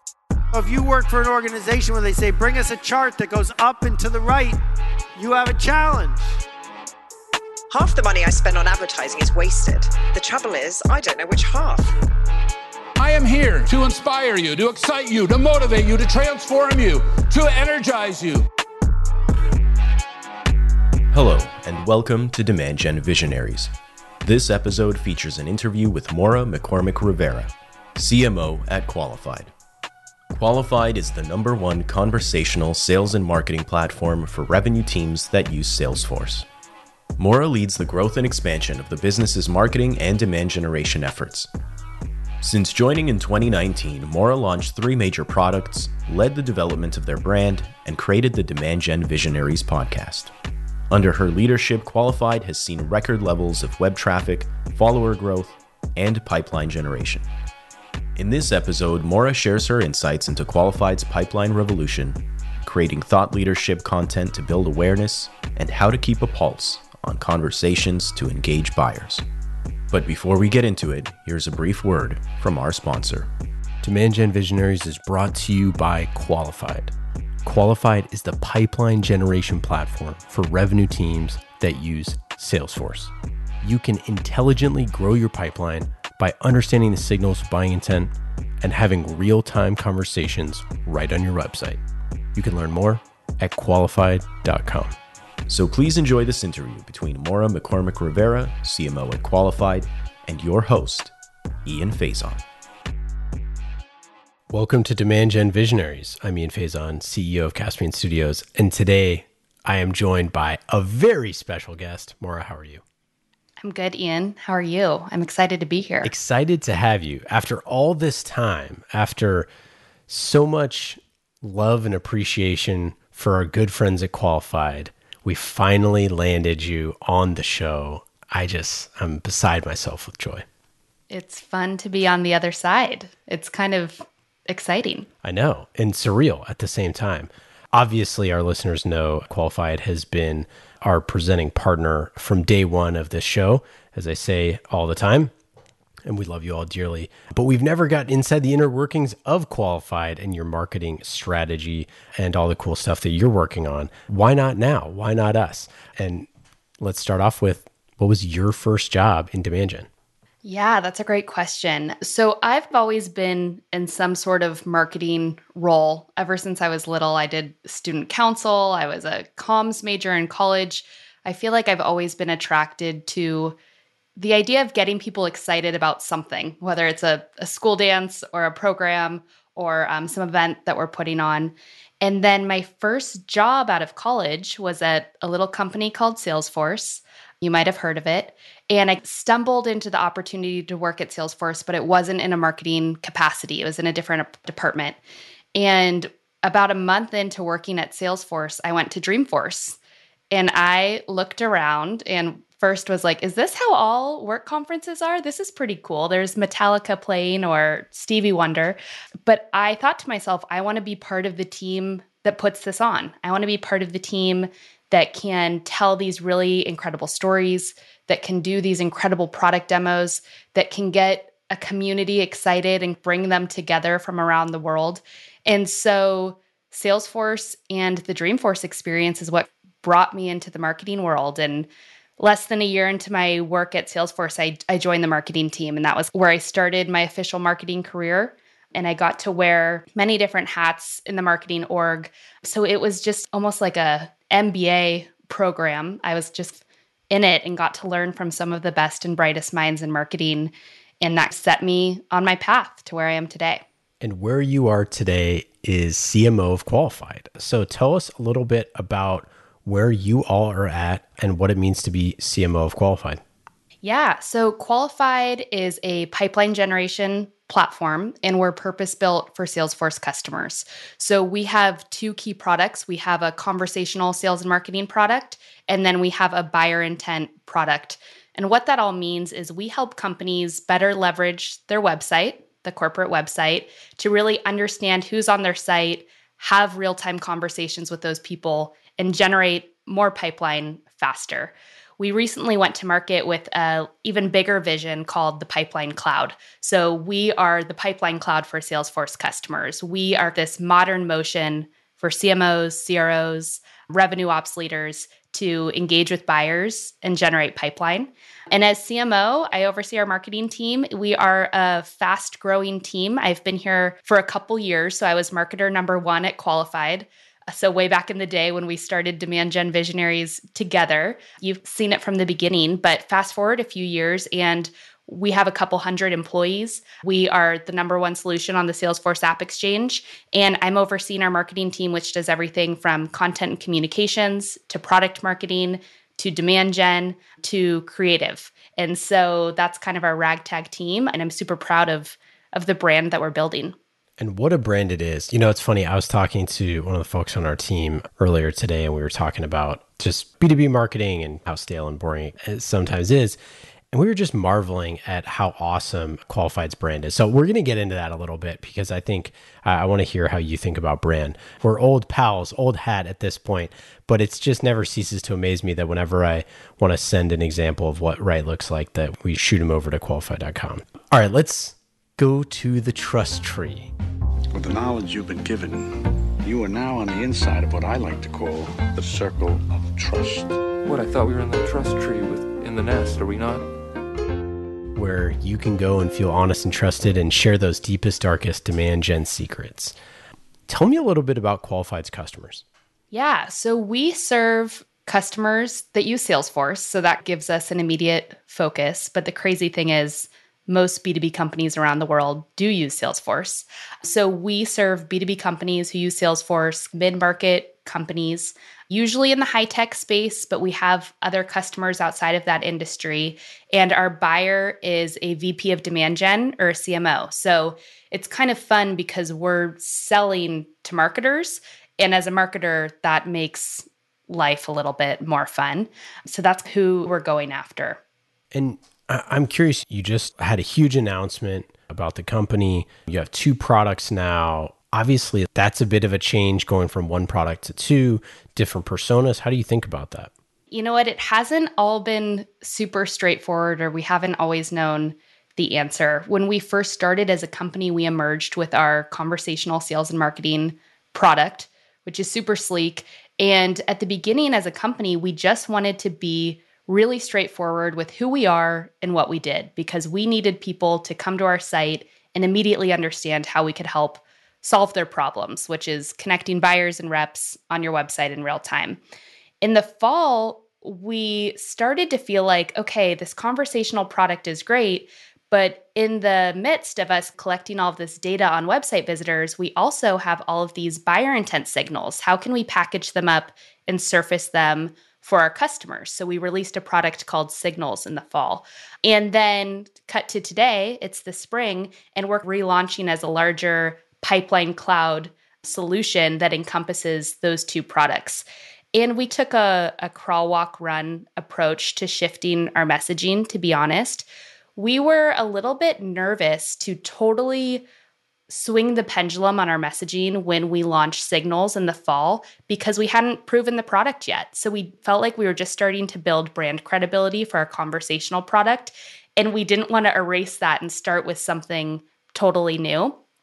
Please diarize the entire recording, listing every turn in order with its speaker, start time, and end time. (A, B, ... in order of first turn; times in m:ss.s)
0:00.5-0:04.6 A
0:05.2-0:06.4 A
0:07.7-0:12.0 B
0:13.0-0:18.5 C
0:21.1-0:29.5 D
0:30.3-0:36.5 D
0:37.2-0:41.5 D
0:42.4-0:50.3 D
0:50.9-0:57.3 D
0:58.2-1:09.2 D
1:09.9-1:13.3 D
1:13.8-1:31.8 E
1:32.4-1:35.0 E
1:35.5-1:41.1 D
1:41.6-1:42.4 D
1:44.5-1:52.8 E
1:53.6-1:56.1 F
1:56.0-1:59.5 E
2:00.1-2:10.4 E
2:11.1-2:15.1 F
2:15.2-2:25.3 E
2:26.1-2:36.3 E
2:36.8-2:39.9 E
2:40.4-2:53.6 F
2:54.2-3:15.0 F
3:15.6-3:19.8 F
3:20.3-4:13.6 F
4:14.0-4:23.2 E
4:23.8-5:43.8 F
5:44.2-5:53.4 E
5:53.9-6:13.9 E
6:14.5-6:20.6 G
6:20.8-6:23.7 H
6:25.0-6:30.0 E
6:30.7-6:32.6 E
6:33.1-7:08.0 F
7:08.5-7:20.3 E
7:20.7-7:49.0 F
7:49.6-8:27.8 F
8:28.5-8:43.2 F